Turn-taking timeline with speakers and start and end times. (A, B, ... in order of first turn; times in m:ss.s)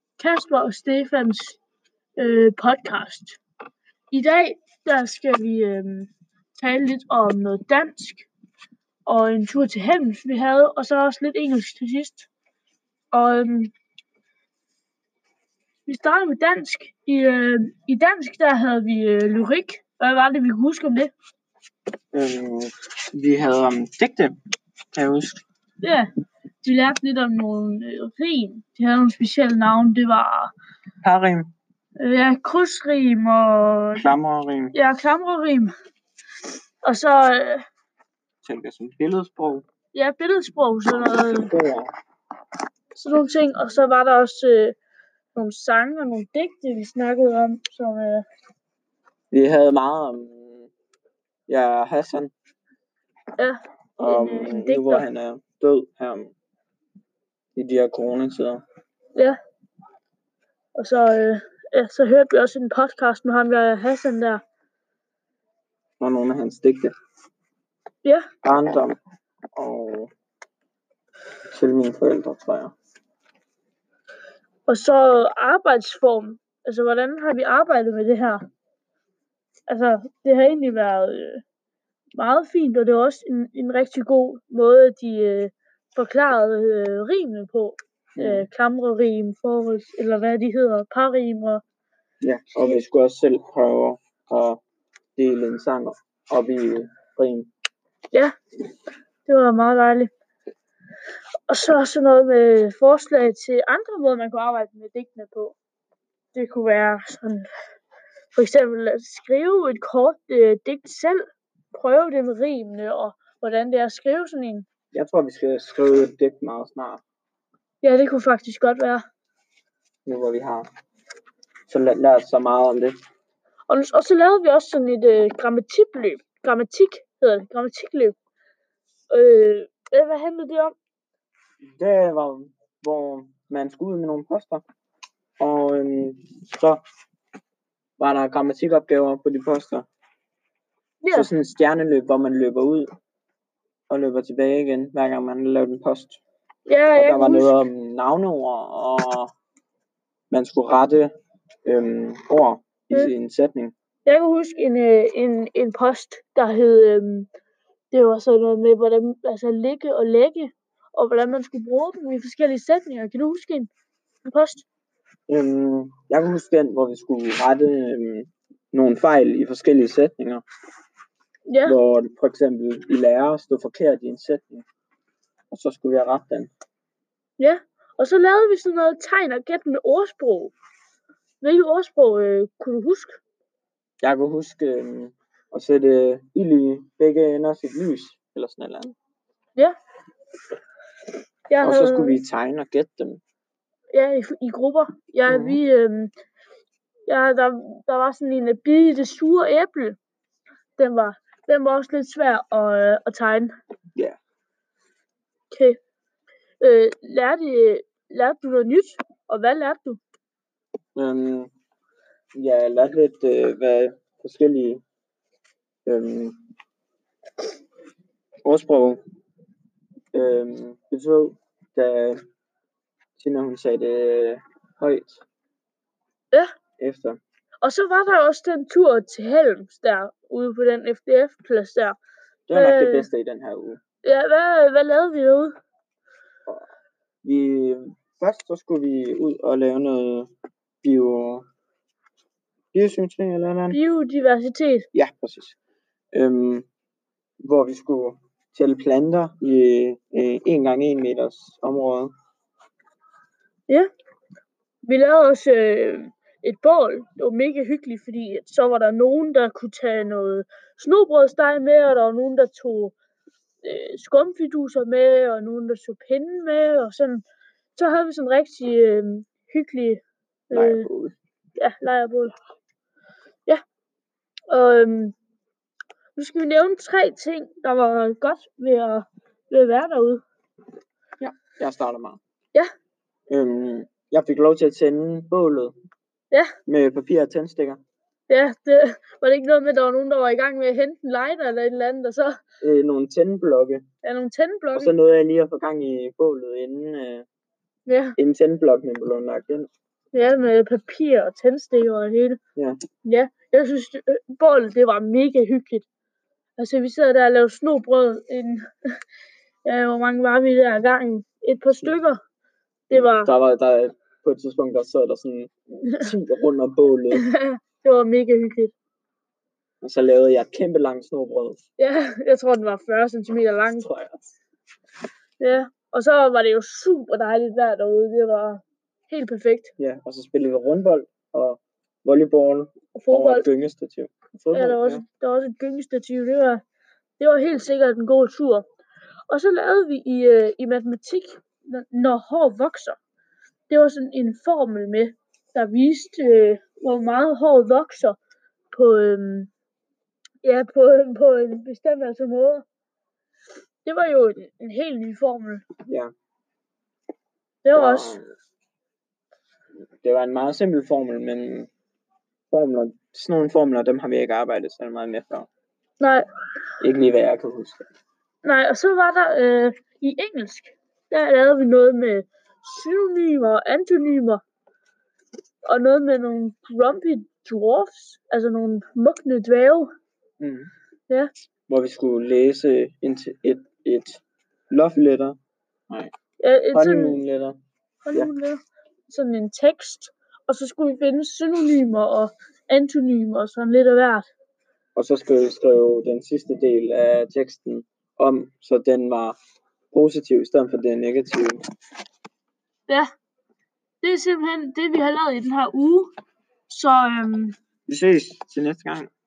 0:00.2-0:01.6 A
0:02.2-0:03.4 A
0:04.1-0:08.3 A
0:09.1-0:12.3 A
0:13.1-0:13.7 A
0:15.9-0:21.1 A
0:22.1-0:24.4 B
0:24.9-0:25.4 B
0:25.8-0:26.1 A
0:26.6-0:30.5 A
0:31.0-0:31.5 B
0:32.0-0:34.1 A
0:34.0-0:34.8 B
0:34.7-0:35.7 A
0:36.8-0:37.6 A
0:38.4-0:39.6 B
0:39.9-0:41.5 A
0:40.9-0:41.9 B
0:43.0-0:44.8 A
0:45.3-0:48.2 A
0:49.3-0:50.7 B
0:51.5-0:52.3 B
0:53.4-0:55.0 A
0:54.0-0:56.3 B
0:57.6-0:58.6 B
1:00.8-1:04.4 A
1:06.0-1:06.9 B
1:08.4-1:09.0 B
1:09.6-1:10.1 B
1:11.5-1:12.7 B
1:14.7-1:18.4 A
1:19.7-1:21.4 A
1:22.2-1:31.6 A
1:28.2-1:28.5 B
1:32.2-1:34.6 B
1:35.2-1:37.5 B
1:39.3-1:40.1 A
1:41.5-1:45.6 A
1:46.3-1:47.5 A
1:48.3-1:51.2 A
1:51.7-1:54.7 A
1:54.9-1:57.0 B
1:57.8-1:59.0 A
2:00.1-2:00.7 B
2:01.7-2:03.0 B
2:03.7-2:08.2 A
2:09.1-2:10.8 A
2:11.8-2:14.6 B
2:15.4-2:16.8 B
2:18.0-2:19.9 B
2:21.0-2:21.3 A
2:21.1-2:22.9 B
2:23.9-2:26.2 B
2:26.7-2:27.6 A
2:27.0-2:29.3 B
2:30.3-2:31.1 B
2:31.7-2:33.7 B
2:34.1-2:37.3 A
2:37.9-2:43.7 A
2:44.2-2:44.6 A
2:45.3-2:50.4 B
2:51.5-2:51.8 A
2:51.6-2:54.6 B
2:55.5-2:56.5 B
2:57.4-3:00.5 A
3:01.4-3:03.2 A
3:04.0-3:09.0 B
3:11.5-3:12.2 A
3:11.6-3:13.2 B
3:13.9-3:16.1 A
3:15.3-3:15.6 B
3:17.1-3:20.0 A
3:20.8-3:23.5 A
3:25.5-3:25.8 A
3:26.6-3:30.0 A
3:31.0-3:31.5 B
3:32.3-3:34.8 B
3:35.9-3:36.4 B
3:38.4-3:39.0 B
3:40.1-3:42.2 B
3:43.2-3:45.2 B
3:46.8-3:47.2 B
3:47.6-3:52.0 A
3:52.5-3:53.8 B
3:52.5-3:53.1 A
3:54.0-3:55.5 A
3:57.2-4:00.3 B
4:00.8-4:01.4 B
4:02.7-4:03.8 B
4:03.7-4:04.9 A
4:04.9-4:05.6 B
4:06.1-4:06.7 B
4:07.4-4:12.1 B
4:14.8-4:23.0 A
4:23.6-4:27.2 A
4:27.8-4:30.9 A
4:30.5-4:31.1 B
4:31.6-4:32.3 A
4:34.5-4:35.1 A
4:36.2-4:40.2 A
4:41.2-4:42.2 B
4:43.3-4:45.7 B
4:46.7-4:47.8 B
4:48.3-4:52.4 A
4:52.6-4:53.8 B
4:54.0-4:54.9 A
4:54.8-4:57.2 B
4:57.9-4:58.2 A
4:58.2-4:59.7 B
5:00.1-5:02.4 A
5:03.0-5:05.9 A
5:06.6-5:08.7 A
5:09.6-5:12.2 A
5:12.9-5:13.3 A
5:12.9-5:17.3 B
5:17.2-5:18.7 A
5:19.8-5:21.6 B
5:21.8-5:24.1 A
5:25.4-5:29.7 A
5:29.8-5:35.0 B
5:32.9-5:33.4 A
5:34.5-5:36.6 A
5:37.2-5:38.6 A
5:39.3-5:43.0 A
5:43.7-5:48.2 A
5:48.7-5:49.5 A
5:50.4-5:52.6 A
5:53.8-5:55.7 A
5:57.6-5:58.2 A
5:57.7-5:58.2 B
6:00.0-6:01.7 B
6:02.5-6:05.5 B
6:06.0-6:06.2 A
6:06.8-6:07.9 B
6:08.4-6:14.4 A
6:15.6-6:19.9 A
6:20.4-6:20.7 B
6:21.7-6:25.4 B
6:26.4-6:27.2 A
6:26.7-6:27.6 B
6:28.0-6:34.3 A
6:35.0-6:39.4 B
6:39.9-6:41.6 B
6:44.0-6:46.1 A
6:46.7-6:47.6 A
6:47.9-6:49.1 B